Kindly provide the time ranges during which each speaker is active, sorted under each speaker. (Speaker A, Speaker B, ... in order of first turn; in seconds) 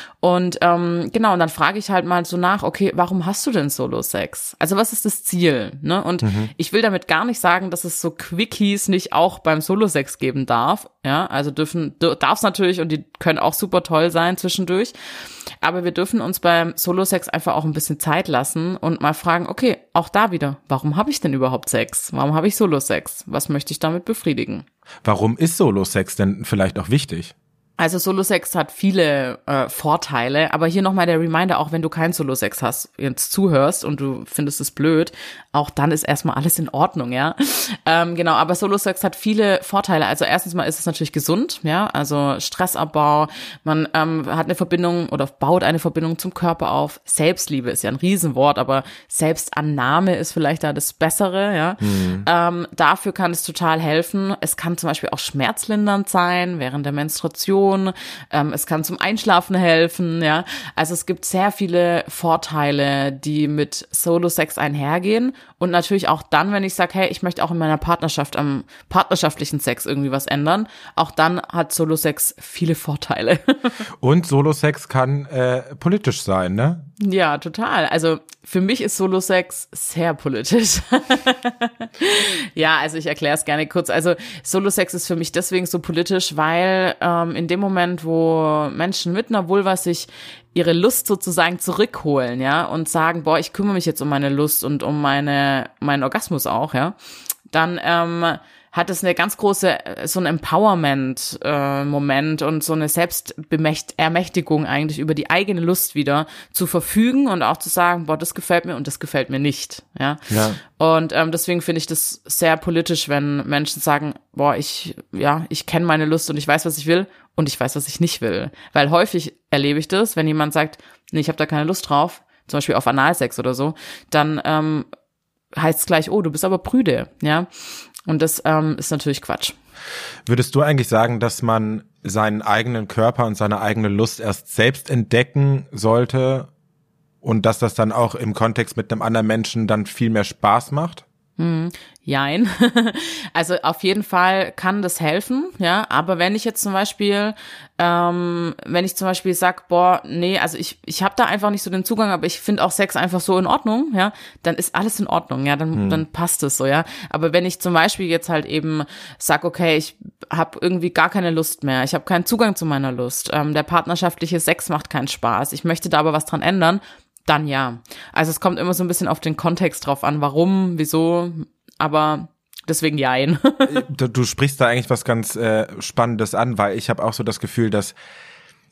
Speaker A: 0.2-14.9, 15.6-24.6, 27.8-73.7, 77.0-96.9, 97.5-124.8, 125.5-127.5, 128.0-129.6, 141.4-173.8
Speaker B: 6.2-6.5, 25.0-27.3, 51.8-52.2, 74.0-76.8, 110.3-110.6, 130.2-136.5, 137.2-141.0, 155.7-156.0, 173.7-177.9